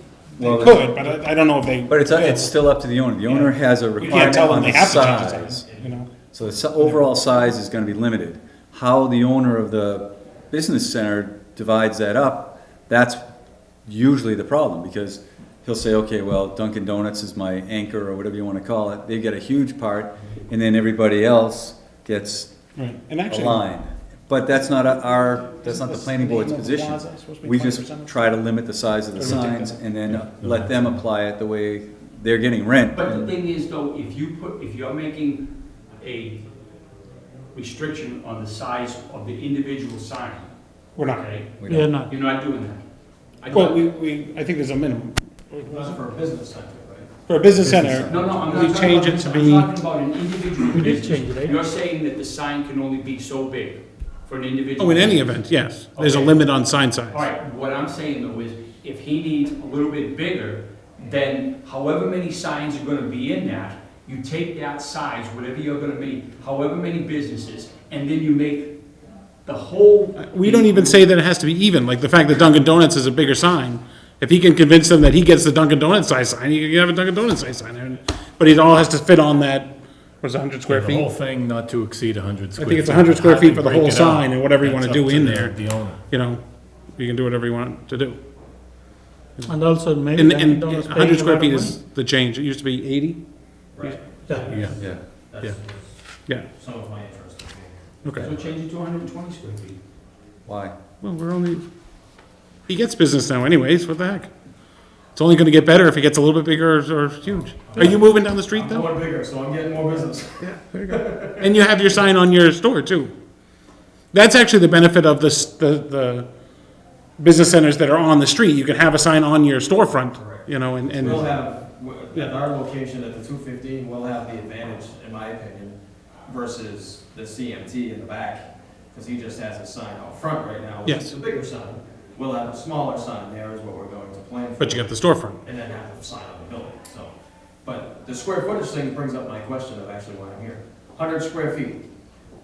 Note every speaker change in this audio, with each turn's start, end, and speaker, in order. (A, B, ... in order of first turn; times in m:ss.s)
0:00.4-0:01.0 A
0:00.6-0:02.6 B
0:01.9-0:05.6 A
0:03.3-0:06.1 B
0:04.0-0:05.1 C
0:06.3-0:13.3 A
0:13.9-0:22.5 A
0:22.8-0:23.6 B
0:23.3-0:33.3 A
0:25.5-0:28.2 B
0:29.2-0:29.8 B
0:30.4-0:30.9 D
0:32.9-0:35.5 C
0:36.0-0:36.4 C
0:37.5-0:42.8 C
0:41.0-0:41.2 B
0:41.6-0:41.9 A
0:41.6-0:42.1 E
0:43.4-0:43.8 C
0:43.5-0:46.0 B
0:45.7-0:47.1 F
0:47.3-0:49.7 B
0:47.6-0:48.7 A
0:48.0-0:55.4 C
0:50.7-0:51.6 E
0:54.8-0:57.2 B
0:56.0-1:08.8 C
1:09.4-1:11.0 C
1:10.2-1:21.1 B
1:20.7-1:26.0 D
1:22.6-1:26.4 B
1:27.0-1:28.2 B
1:29.5-1:31.8 E
1:30.1-1:33.2 B
1:33.8-1:36.0 F
1:34.3-1:34.6 E
1:34.4-1:34.8 D
1:36.6-1:38.5 F
1:38.0-1:38.3 B
1:38.2-1:39.8 C
1:40.5-1:40.8 A
1:41.0-1:41.6 B
1:42.7-1:44.3 B
1:45.2-1:48.9 B
1:47.7-1:50.4 F
1:50.4-1:53.1 B
1:50.9-1:51.5 F
1:54.1-1:56.3 B
1:57.2-2:01.3 B
2:00.2-2:05.8 F
2:06.3-2:14.9 F
2:10.9-2:11.1 B
2:14.6-2:15.4 B
2:15.4-2:17.1 F
2:17.6-2:21.8 F